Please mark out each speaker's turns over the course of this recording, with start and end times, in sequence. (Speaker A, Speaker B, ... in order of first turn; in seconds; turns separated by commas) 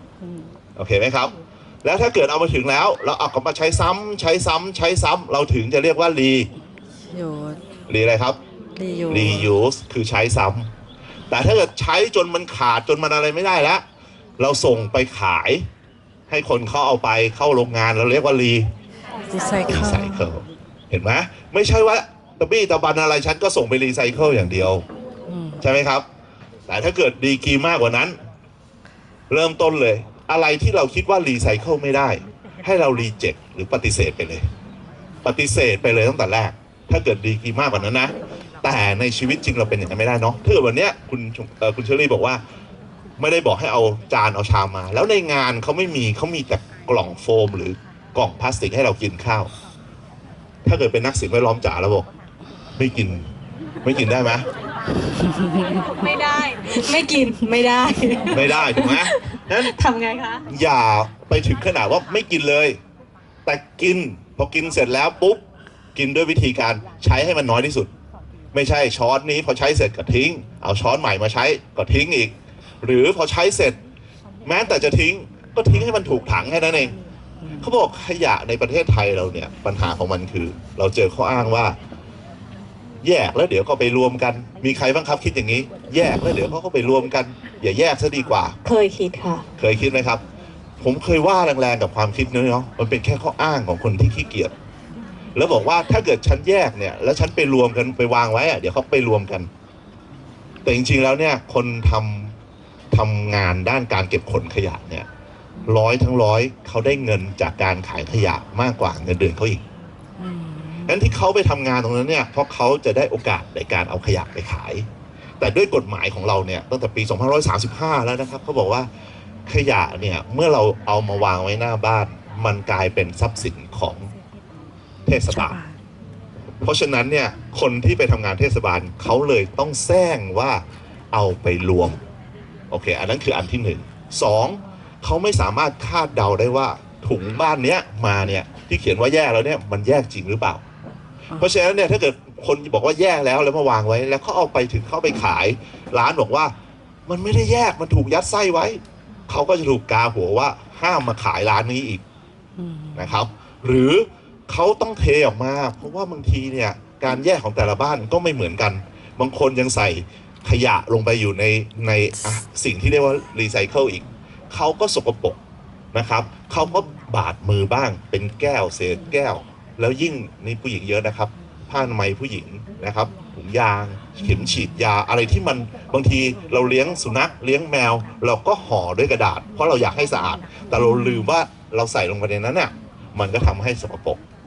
Speaker A: 0.2-0.5, Speaker B: 0.8-6.5, Speaker A: 7.1-7.6, Speaker B: 7.9-8.4, Speaker A: 8.8-9.5, Speaker B: 9.1-10.7, Speaker B: 11.3-13.8, Speaker B: 14.4-15.7, Speaker B: 16.3-18.7, Speaker A: 19.3-20.3, Speaker B: 19.6-24.9, Speaker A: 25.3-25.6, Speaker B: 25.6-26.1, Speaker B: 26.7-28.2, Speaker B: 29.3-34.5, Speaker B: 35.2-42.4, Speaker B: 43.2-49.5, Speaker B: 50.6-52.1, Speaker B: 52.8-53.3, Speaker B: 53.8-54.5, Speaker C: 55.8-60.5, Speaker B: 58.3-59.8, Speaker B: 60.5-62.8, Speaker B: 63.5-65.4, Speaker B: 66.0-67.9, Speaker B: 68.5-73.8, Speaker B: 74.5-77.0, Speaker A: 77.4-77.7, Speaker B: 77.6-81.8, Speaker B: 83.0-88.5, Speaker C: 88.6-89.5, Speaker B: 89.6-90.2, Speaker B: 90.8-94.5, Speaker B: 95.3-99.5, Speaker B: 100.6-102.3, Speaker B: 102.9-105.1, Speaker B: 105.7-109.6, Speaker A: 110.2-111.0, Speaker B: 110.9-118.9, Speaker B: 119.5-124.1, Speaker B: 125.0-125.6, Speaker A: 125.3-125.8, Speaker B: 126.6-132.0, Speaker B: 132.7-140.6, Speaker B: 141.4-146.5, Speaker B: 147.1-152.0, Speaker A: 152.6-153.2, Speaker B: 152.9-165.4, Speaker B: 165.9-184.2, Speaker A: 174.2-174.6, Speaker A: 180.7-181.3